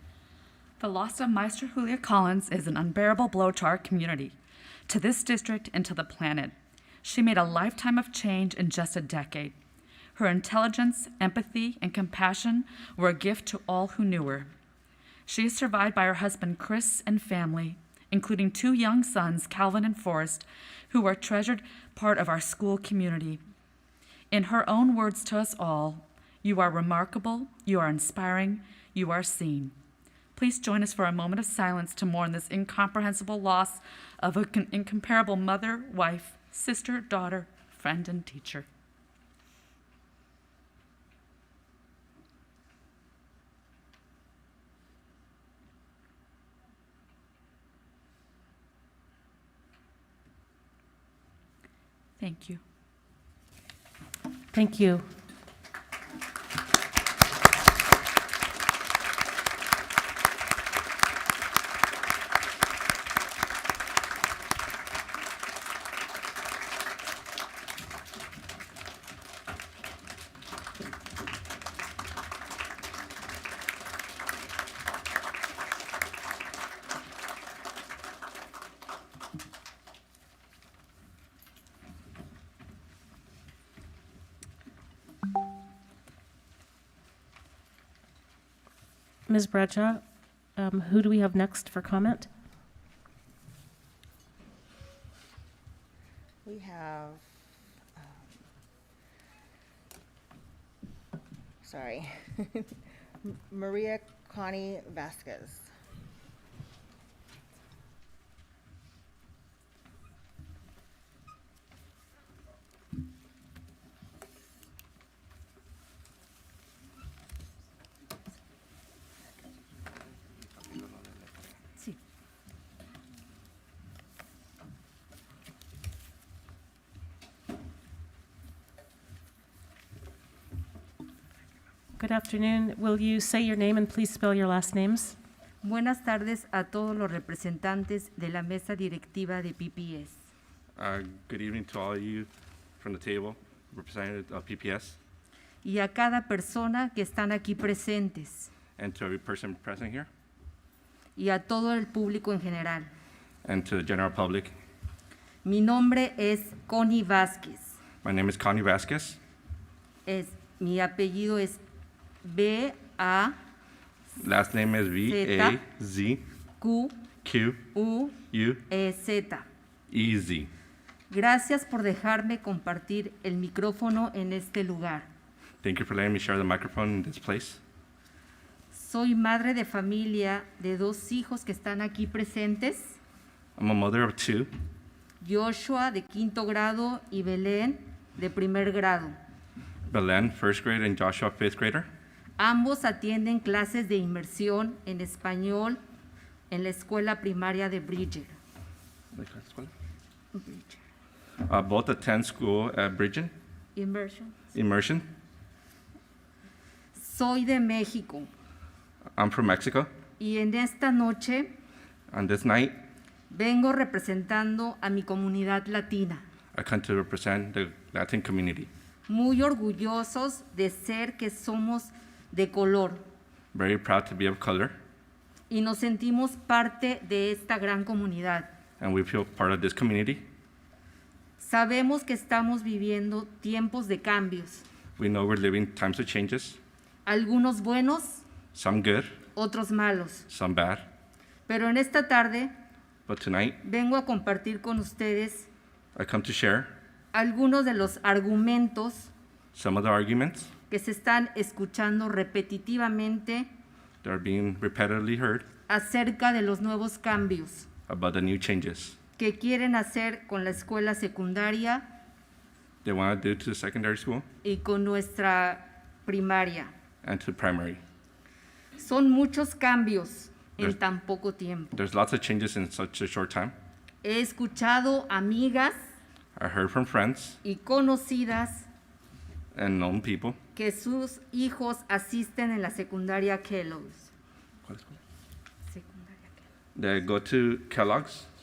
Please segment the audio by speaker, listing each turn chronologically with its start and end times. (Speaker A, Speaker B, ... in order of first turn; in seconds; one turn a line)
Speaker A: 0.8-4.3
Speaker A: 4.9-9.6
Speaker A: 10.1-14.5
Speaker A: 15.3-23.4
Speaker A: 24.3-29.7
Speaker A: 30.4-38.6
Speaker A: 52.2-52.6
Speaker B: 54.5-55.0
Speaker B: 89.3-90.0
Speaker B: 90.5-92.3
Speaker C: 96.4-97.2
Speaker C: 101.6-102.7
Speaker C: 103.2-105.7
Speaker B: 132.0-135.2
Speaker D: 135.6-140.2
Speaker E: 140.8-142.3
Speaker E: 142.8-145.0
Speaker D: 145.6-148.5
Speaker E: 148.8-150.1
Speaker D: 151.2-152.9
Speaker E: 153.4-154.5
Speaker D: 155.4-157.8
Speaker E: 158.0-159.2
Speaker D: 160.1-161.6
Speaker D: 162.2-163.3
Speaker E: 164.2-166.2
Speaker D: 165.1-165.6
Speaker D: 166.6-166.9
Speaker E: 167.2-167.6
Speaker D: 167.7-169.4
Speaker E: 168.3-168.6
Speaker E: 169.9-170.5
Speaker D: 171.1-175.1
Speaker E: 175.6-177.6
Speaker D: 178.7-183.0
Speaker E: 183.6-184.5
Speaker D: 185.2-189.1
Speaker E: 189.9-191.9
Speaker D: 192.4-195.8
Speaker D: 196.5-198.3
Speaker E: 199.1-199.7
Speaker D: 200.3-200.8
Speaker E: 201.4-203.3
Speaker D: 203.8-204.4
Speaker E: 204.5-205.1
Speaker D: 206.9-208.3
Speaker E: 209.2-209.9
Speaker D: 210.2-211.5
Speaker E: 212.1-212.8
Speaker D: 213.3-216.2
Speaker E: 216.5-218.7
Speaker D: 219.1-223.0
Speaker E: 223.5-224.7
Speaker D: 225.5-228.5
Speaker E: 228.8-230.2
Speaker D: 231.4-234.6
Speaker E: 235.0-236.6
Speaker D: 237.1-238.2
Speaker E: 238.5-239.2
Speaker D: 239.3-240.2
Speaker E: 240.3-240.9
Speaker D: 241.5-242.5
Speaker E: 243.1-243.6
Speaker D: 243.6-245.5
Speaker E: 245.9-246.7
Speaker D: 247.1-249.1
Speaker E: 249.5-250.5
Speaker D: 250.7-253.5
Speaker E: 254.0-255.4
Speaker D: 255.7-257.7
Speaker E: 257.9-259.0
Speaker D: 259.2-261.8
Speaker E: 262.8-264.2
Speaker D: 264.4-266.7
Speaker E: 267.0-267.8
Speaker D: 268.8-271.7
Speaker E: 271.7-273.5
Speaker D: 274.0-275.8
Speaker E: 276.4-277.4
Speaker D: 277.4-278.7
Speaker E: 279.5-280.4
Speaker D: 280.5-284.1
Speaker E: 284.6-285.0
Speaker D: 285.7-286.4
Speaker E: 286.8-288.3